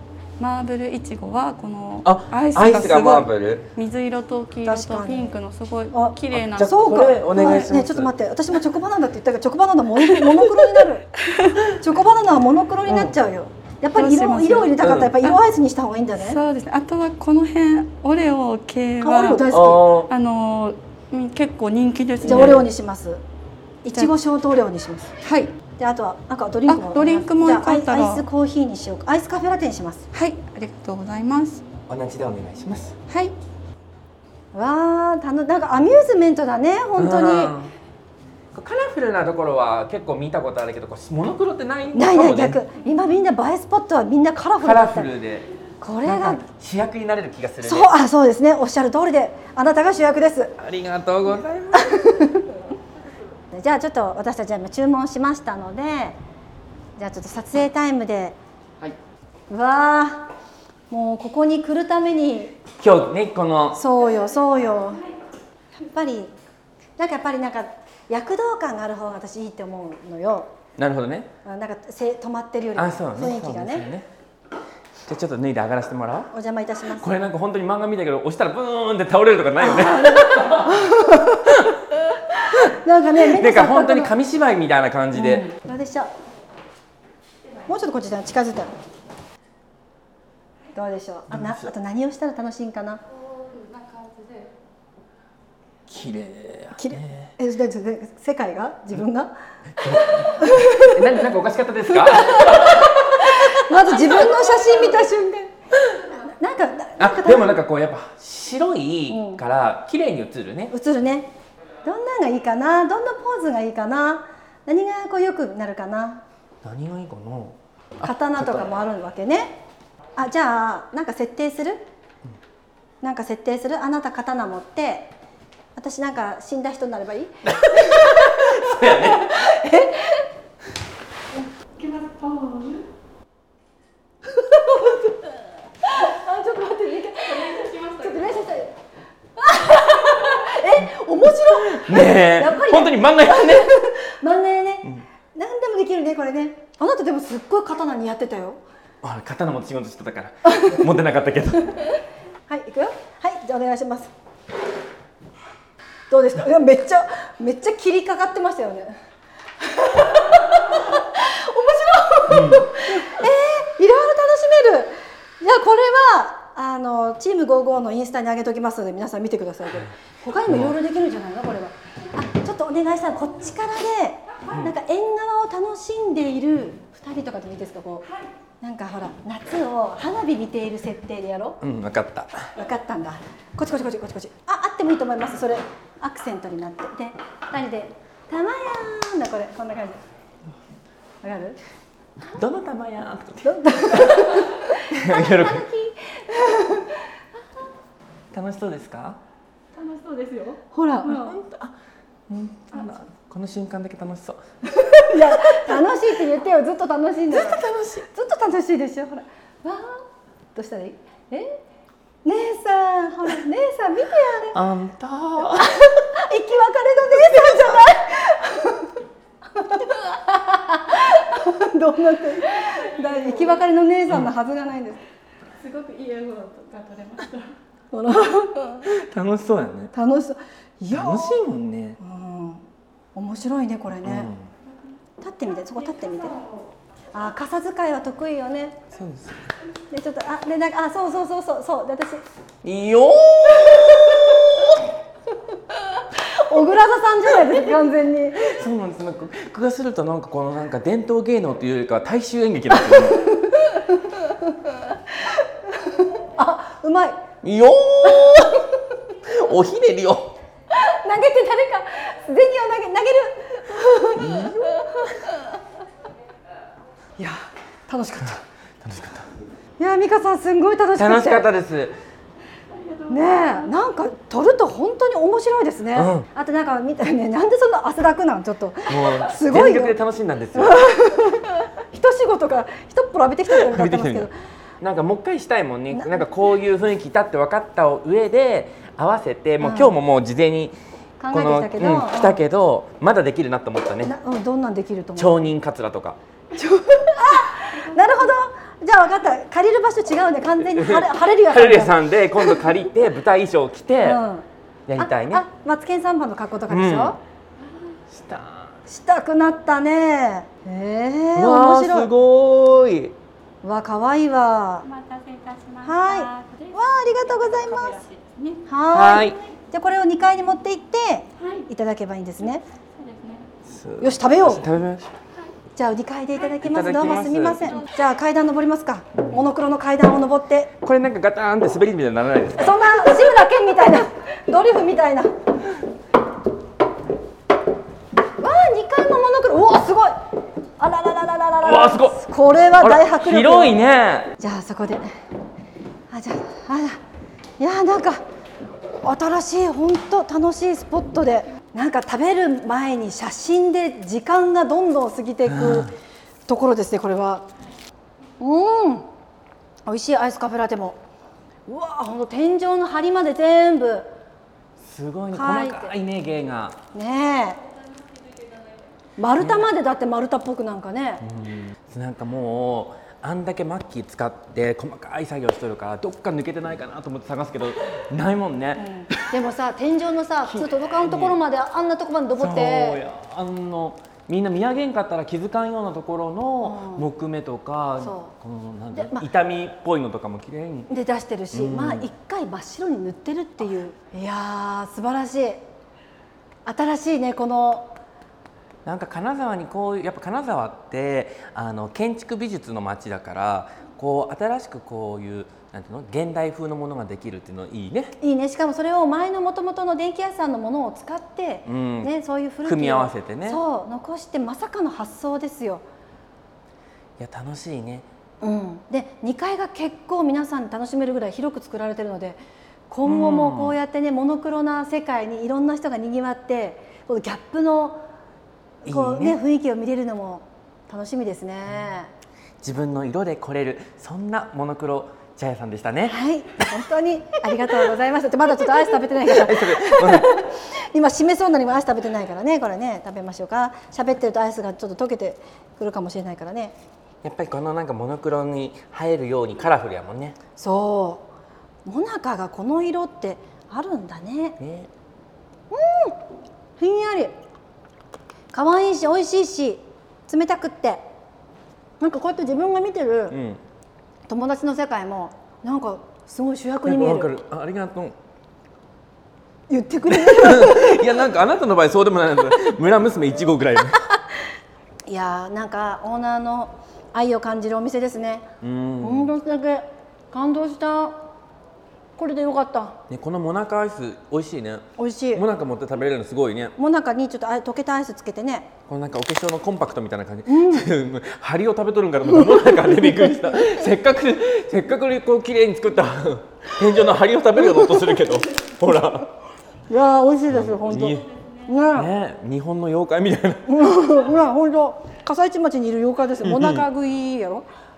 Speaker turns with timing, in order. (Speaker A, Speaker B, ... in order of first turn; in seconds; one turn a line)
Speaker A: 0.4-7.7
Speaker B: 2.0-3.7
Speaker C: 4.6-5.3
Speaker C: 5.9-11.1
Speaker B: 6.3-8.1
Speaker A: 10.0-11.7
Speaker C: 11.7-16.4
Speaker B: 12.8-13.1
Speaker A: 13.9-15.4
Speaker B: 14.8-15.1
Speaker A: 16.1-19.5
Speaker C: 19.0-19.9
Speaker B: 19.5-20.1
Speaker A: 20.1-22.7
Speaker B: 22.2-22.6
Speaker C: 22.2-23.2
Speaker C: 23.8-25.1
Speaker A: 25.2-25.5
Speaker C: 25.8-30.0
Speaker A: 26.7-28.2
Speaker A: 30.1-31.6
Speaker B: 31.9-32.9
Speaker A: 33.1-33.3
Speaker C: 34.5-37.5
Speaker B: 37.0-37.7
Speaker B: 38.5-42.6
Speaker C: 41.9-45.1
Speaker B: 44.6-45.5
Speaker C: 45.8-46.4
Speaker B: 46.0-47.9
Speaker C: 47.6-50.5
Speaker B: 50.6-52.0
Speaker C: 51.7-52.5
Speaker C: 53.5-56.2
Speaker C: 57.0-58.4
Speaker C: 59.5-60.3
Speaker C: 60.9-62.5
Speaker B: 62.8-63.8
Speaker C: 63.7-65.0
Speaker C: 65.7-66.3
Speaker C: 67.0-70.5
Speaker B: 70.8-71.3
Speaker C: 71.4-73.9
Speaker B: 72.7-74.1
Speaker B: 75.1-76.3
Speaker C: 76.3-77.1
Speaker B: 77.0-80.9
Speaker C: 79.6-81.6
Speaker B: 81.5-81.7
Speaker C: 82.5-84.1
Speaker B: 83.2-85.5
Speaker C: 85.1-86.1
Speaker C: 87.7-88.7
Speaker C: 90.7-93.0
Speaker B: 91.3-91.7
Speaker A: 93.2-94.5
Speaker B: 95.9-97.3
Speaker C: 96.8-99.3
Speaker B: 99.8-104.0
Speaker C: 100.0-101.0
Speaker C: 101.9-105.5
Speaker C: 106.4-107.6
Speaker B: 107.0-110.7
Speaker C: 109.1-109.4
Speaker C: 110.7-111.3
Speaker C: 111.8-116.2
Speaker B: 116.6-118.7
Speaker C: 118.0-119.6
Speaker C: 120.2-121.8
Speaker C: 123.0-125.1
Speaker C: 125.8-130.2
Speaker B: 128.0-129.5
Speaker A: 131.8-132.8
Speaker C: 134.4-135.0
Speaker C: 135.9-138.7
Speaker A: 137.5-138.0
Speaker C: 139.4-148.6
Speaker B: 141.6-143.7
Speaker B: 149.0-151.8
Speaker C: 152.5-154.1
Speaker C: 156.1-158.9
Speaker C: 159.6-178.1
Speaker B: 162.3-162.7
Speaker B: 170.5-170.8
Speaker C: 178.6-181.6
Speaker B: 181.6-182.5
Speaker C: 182.5-190.0
Speaker C: 191.2-191.6
Speaker B: 192.3-195.7
Speaker C: 193.4-197.0
Speaker B: 198.3-199.2
Speaker A: 199.7-201.3
Speaker C: 200.7-201.3
Speaker B: 201.0-201.7
Speaker B: 202.3-204.4
Speaker C: 204.7-211.6
Speaker B: 205.1-205.6
Speaker B: 207.3-208.1
Speaker C: 212.2-214.6
Speaker B: 214.5-215.8
Speaker C: 215.6-218.9
Speaker C: 219.5-225.0
Speaker A: 222.6-223.6
Speaker A: 225.6-227.5
Speaker C: 227.9-228.9
Speaker B: 228.8-229.9
Speaker C: 229.9-231.4
Speaker B: 230.9-232.0
Speaker C: 232.0-234.3
Speaker B: 234.0-234.5
Speaker C: 235.2-236.4
Speaker C: 237.1-238.8
Speaker B: 238.9-239.5
Speaker C: 239.9-242.2
Speaker B: 242.6-244.8
Speaker C: 246.1-248.6
Speaker B: 248.4-253.3
Speaker C: 253.5-254.4
Speaker C: 255.8-257.2
Speaker B: 257.4-258.6
Speaker B: 259.2-260.3
Speaker C: 260.7-265.2
Speaker B: 264.2-264.7
Speaker C: 267.2-268.4
Speaker B: 268.8-269.3
Speaker C: 269.8-271.5
Speaker B: 270.9-271.9
Speaker A: 272.8-273.7
Speaker C: 273.1-280.0
Speaker B: 275.9-276.2
Speaker B: 278.9-280.8
Speaker C: 280.5-284.3
Speaker B: 283.5-284.3
Speaker B: 284.8-290.8
Speaker C: 285.9-286.2
Speaker C: 289.6-289.9
Speaker C: 291.2-292.4
Speaker B: 291.3-294.1
Speaker C: 294.0-295.5
Speaker B: 295.1-296.2
Speaker C: 296.6-302.6
Speaker A: 297.7-298.2
Speaker B: 300.7-304.2
Speaker C: 304.0-304.4
Speaker B: 304.9-305.4
Speaker C: 305.0-307.2
Speaker B: 306.7-307.1
Speaker B: 308.1-308.7
Speaker C: 308.9-312.1
Speaker B: 311.4-313.1
Speaker C: 313.6-314.9
Speaker A: 314.8-318.6
Speaker C: 315.8-318.0
Speaker C: 318.6-322.6
Speaker B: 318.9-319.4
Speaker A: 321.4-321.7
Speaker A: 322.9-323.5
Speaker B: 323.6-325.1
Speaker C: 324.0-324.6
Speaker C: 325.7-330.7
Speaker B: 326.6-327.7
Speaker B: 330.8-333.3
Speaker C: 332.6-335.3
Speaker C: 338.4-340.2
Speaker C: 340.8-343.9
Speaker B: 341.6-342.2
Speaker B: 342.8-344.3
Speaker C: 344.4-345.0
Speaker C: 346.1-347.0
Speaker C: 347.6-348.2
Speaker C: 349.0-355.9
Speaker B: 355.4-355.9
Speaker C: 356.5-357.4
Speaker C: 358.4-359.1
Speaker C: 359.9-361.0
Speaker C: 361.7-364.1
Speaker B: 364.8-366.8
Speaker C: 365.3-365.9
Speaker C: 366.9-367.6
Speaker C: 369.2-371.2
Speaker B: 369.4-369.7
Speaker B: 371.2-379.2
Speaker C: 378.8-383.0
Speaker B: 380.4-381.4
Speaker B: 382.3-390.9
Speaker C: 386.6-387.1
Speaker C: 388.0-388.3
Speaker C: 388.9-389.2
Speaker C: 390.9-395.6
Speaker B: 391.5-392.1
Speaker C: 396.6-397.9
Speaker B: 398.8-408.1
Speaker C: 408.2-415.8
Speaker B: 411.6-412.1
Speaker B: 412.6-413.6
Speaker B: 417.2-418.1
Speaker C: 418.4-428.0
Speaker B: 423.0-423.8
Speaker C: 428.8-432.1
Speaker B: 428.8-429.4
Speaker B: 432.6-436.6
Speaker C: 436.1-446.7
Speaker B: 438.7-440.3
Speaker B: 447.2-450.4
Speaker C: 450.6-451.3
Speaker C: 451.8-454.6
Speaker B: 454.6-454.9
Speaker C: 455.7-456.2
Speaker C: 456.8-457.3
Speaker C: 458.5-461.0
Speaker C: 462.0-463.4
Speaker B: 463.3-463.6
Speaker C: 464.3-467.3
Speaker B: 466.8-468.1
Speaker C: 469.7-471.0
Speaker B: 470.1-474.0
Speaker C: 475.1-478.5
Speaker B: 478.6-479.3
Speaker C: 479.0-481.2
Speaker C: 482.2-483.0
Speaker B: 483.1-486.7
Speaker C: 485.0-485.4
Speaker C: 486.8-488.7
Speaker B: 488.9-499.3
Speaker C: 490.5-490.9
Speaker C: 499.9-502.1
Speaker B: 500.5-501.2
Speaker B: 501.9-503.8
Speaker C: 503.6-507.7
Speaker B: 506.4-506.8